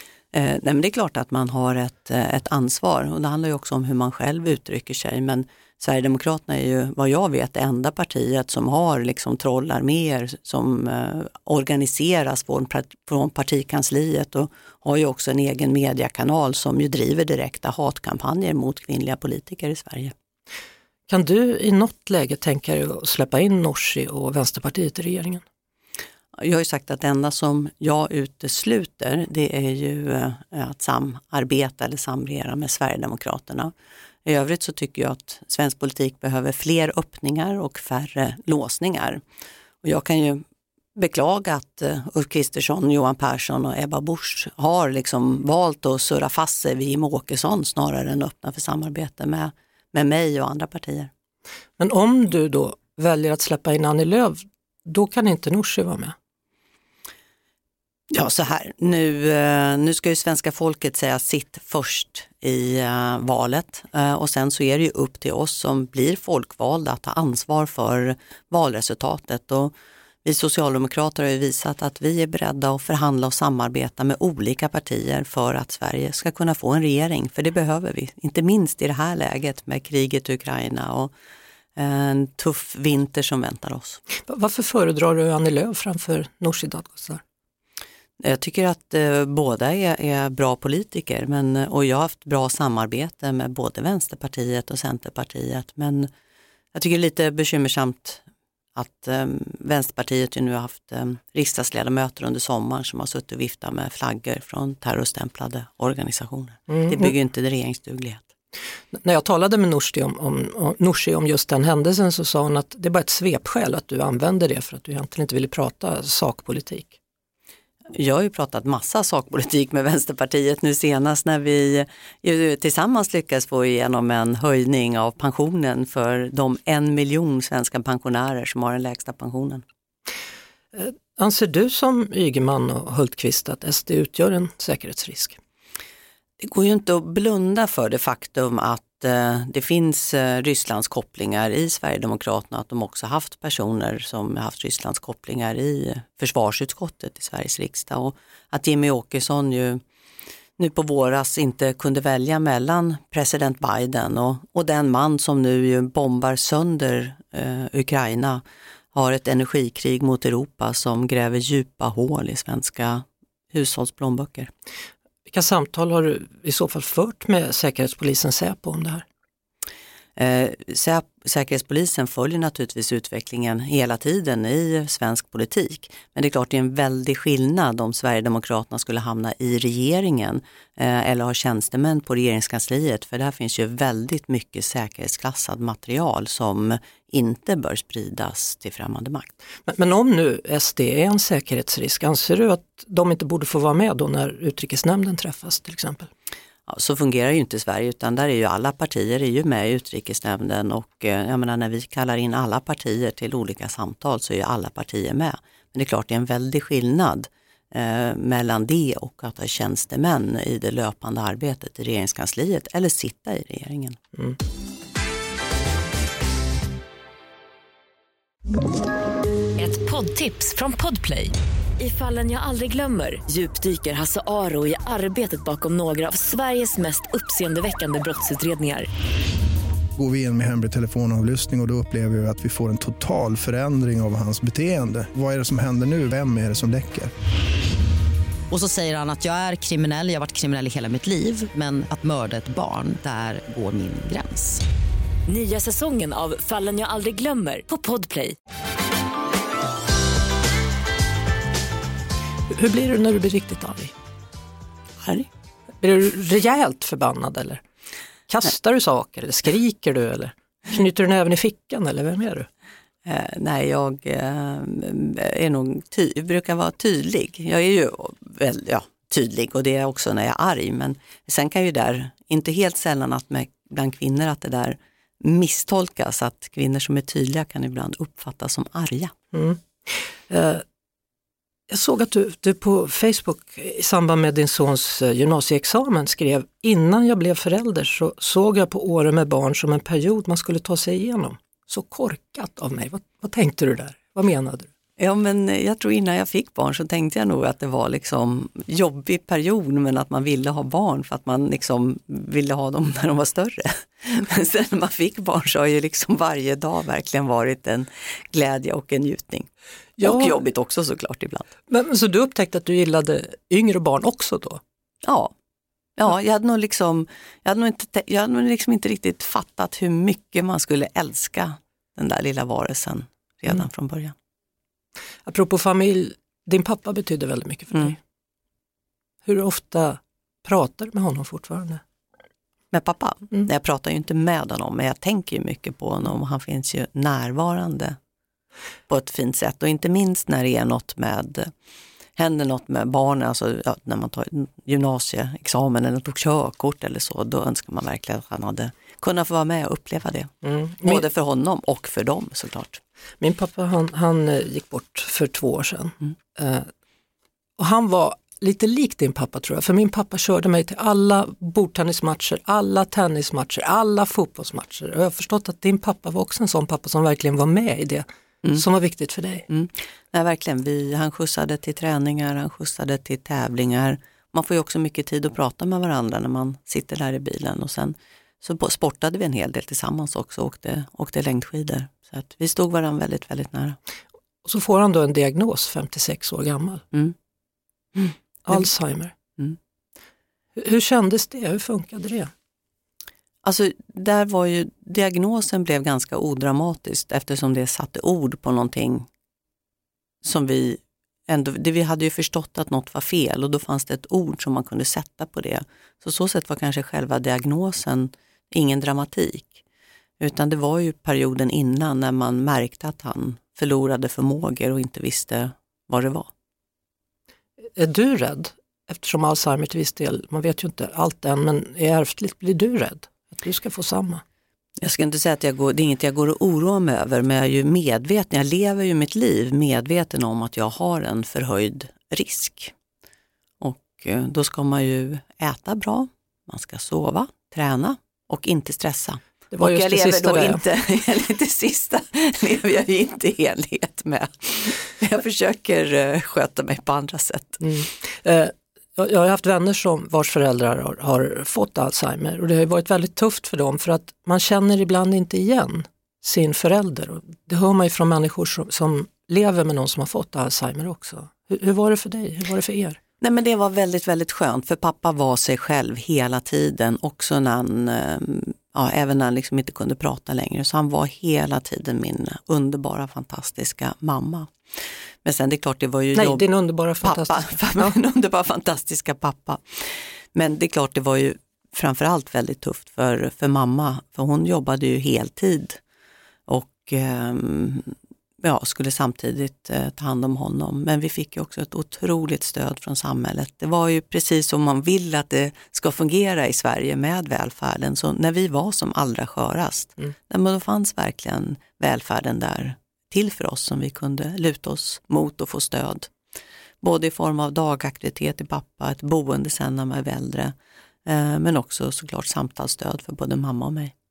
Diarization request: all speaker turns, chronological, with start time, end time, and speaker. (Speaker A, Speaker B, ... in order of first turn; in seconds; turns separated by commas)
Speaker A: 0.3-20.1, Speaker B: 21.1-25.4, Speaker A: 26.4-33.7, Speaker A: 34.3-39.2, Speaker A: 39.8-40.4, Speaker A: 41.0-51.1, Speaker B: 51.8-56.1, Speaker A: 58.1-69.7, Speaker A: 70.2-81.1, Speaker A: 81.8-84.0, Speaker B: 84.2-87.2, Speaker A: 88.2-96.1, Speaker A: 96.7-98.2, Speaker A: 98.8-108.3, Speaker B: 106.7-107.2, Speaker B: 108.9-117.0, Speaker A: 118.0-129.6, Speaker B: 130.7-135.4, Speaker A: 136.4-149.8, Speaker A: 150.6-158.4, Speaker A: 158.9-164.5, Speaker B: 165.3-169.1, Speaker A: 170.2-189.3, Speaker B: 189.7-196.1, Speaker A: 196.7-214.0, Speaker C: 219.6-228.9, Speaker D: 230.0-237.1, Speaker E: 238.5-244.6, Speaker C: 245.3-248.4, Speaker B: 252.5-253.9, Speaker A: 255.0-255.3, Speaker B: 255.8-257.6, Speaker B: 258.3-262.5, Speaker A: 263.1-279.1, Speaker B: 279.3-280.6, Speaker B: 281.7-294.7, Speaker A: 295.0-309.5, Speaker B: 310.0-310.4, Speaker A: 310.0-311.5, Speaker B: 311.7-314.6, Speaker A: 315.1-315.3, Speaker A: 316.0-324.1, Speaker B: 325.3-328.0, Speaker B: 329.2-331.8, Speaker A: 332.7-338.0, Speaker A: 338.9-341.5, Speaker A: 342.2-352.8, Speaker B: 350.4-351.0, Speaker B: 353.2-356.7, Speaker B: 357.6-369.5, Speaker A: 369.5-383.8, Speaker B: 384.4-386.8, Speaker A: 388.0-388.7, Speaker B: 388.4-389.1, Speaker B: 390.6-392.3, Speaker A: 393.4-399.1, Speaker A: 400.2-409.6, Speaker A: 410.2-416.3, Speaker B: 417.8-424.2, Speaker A: 424.8-432.7, Speaker A: 433.6-447.6, Speaker B: 439.5-440.6, Speaker B: 447.6-463.0, Speaker A: 463.2-474.5, Speaker A: 475.2-476.5, Speaker B: 476.1-478.0, Speaker A: 477.0-485.8, Speaker A: 486.5-506.1, Speaker A: 506.8-510.5, Speaker A: 511.1-513.9